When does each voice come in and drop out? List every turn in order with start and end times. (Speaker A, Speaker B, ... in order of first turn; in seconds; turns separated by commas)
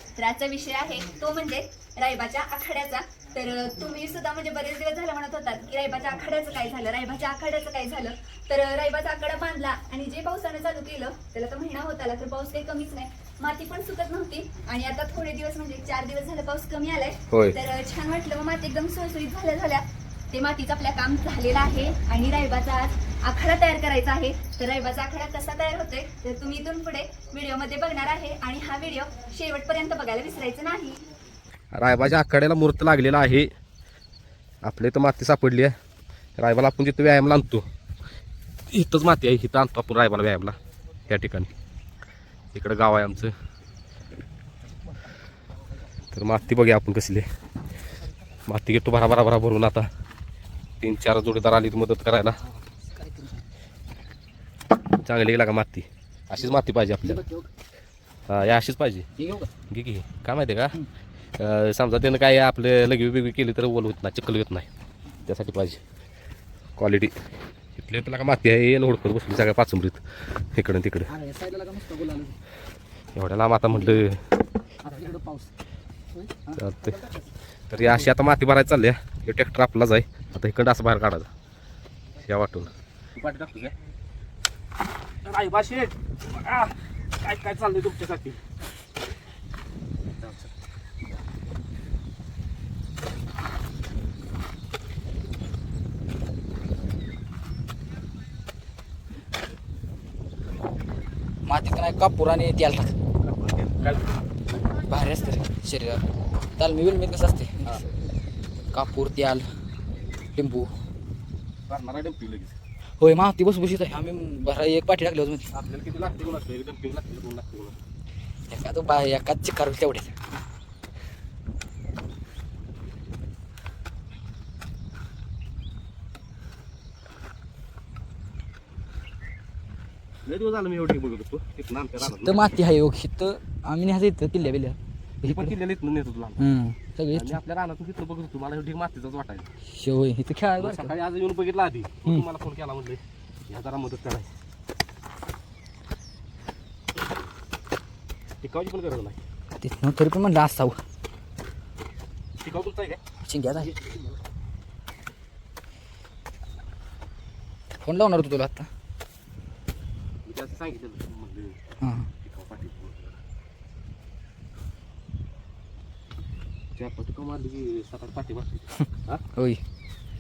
Speaker A: 0.2-31.0, Speaker B: 17.3-17.6, Speaker B: 31.7-33.5, Speaker B: 34.6-35.7, Speaker B: 36.4-37.6, Speaker B: 38.7-40.6, Speaker B: 41.1-41.5, Speaker B: 42.5-43.3, Speaker B: 46.1-47.2, Speaker B: 48.5-49.9, Speaker B: 50.8-52.4, Speaker C: 52.5-53.4, Speaker B: 55.0-57.2, Speaker C: 57.0-57.5, Speaker B: 58.3-59.1, Speaker C: 59.2-59.5, Speaker B: 59.7-60.8, Speaker B: 61.4-64.7, Speaker B: 65.3-65.8, Speaker B: 66.8-67.1, Speaker B: 67.8-70.0, Speaker B: 70.5-71.1, Speaker C: 71.1-72.4, Speaker B: 73.2-74.2, Speaker C: 74.8-75.5, Speaker C: 76.1-77.3, Speaker B: 76.6-77.0, Speaker B: 77.7-81.3, Speaker B: 82.2-83.7, Speaker B: 85.2-88.4, Speaker B: 90.2-90.5, Speaker C: 101.5-102.9, Speaker B: 103.2-104.2, Speaker C: 104.9-106.0, Speaker C: 106.6-107.9, Speaker C: 108.7-109.5, Speaker C: 110.3-110.7, Speaker B: 111.7-112.6, Speaker C: 113.0-115.5, Speaker B: 115.5-117.8, Speaker C: 118.5-120.1, Speaker B: 130.2-132.5, Speaker C: 132.0-135.5, Speaker B: 135.2-136.5, Speaker C: 136.4-137.4, Speaker B: 137.1-139.5, Speaker C: 139.7-140.9, Speaker B: 140.6-144.3, Speaker B: 148.4-149.2, Speaker C: 149.6-150.8, Speaker B: 152.4-153.0, Speaker C: 153.3-153.7, Speaker B: 153.6-154.2, Speaker C: 157.8-158.7, Speaker B: 160.2-161.6, Speaker C: 161.8-162.1, Speaker B: 162.2-163.2, Speaker B: 166.8-169.2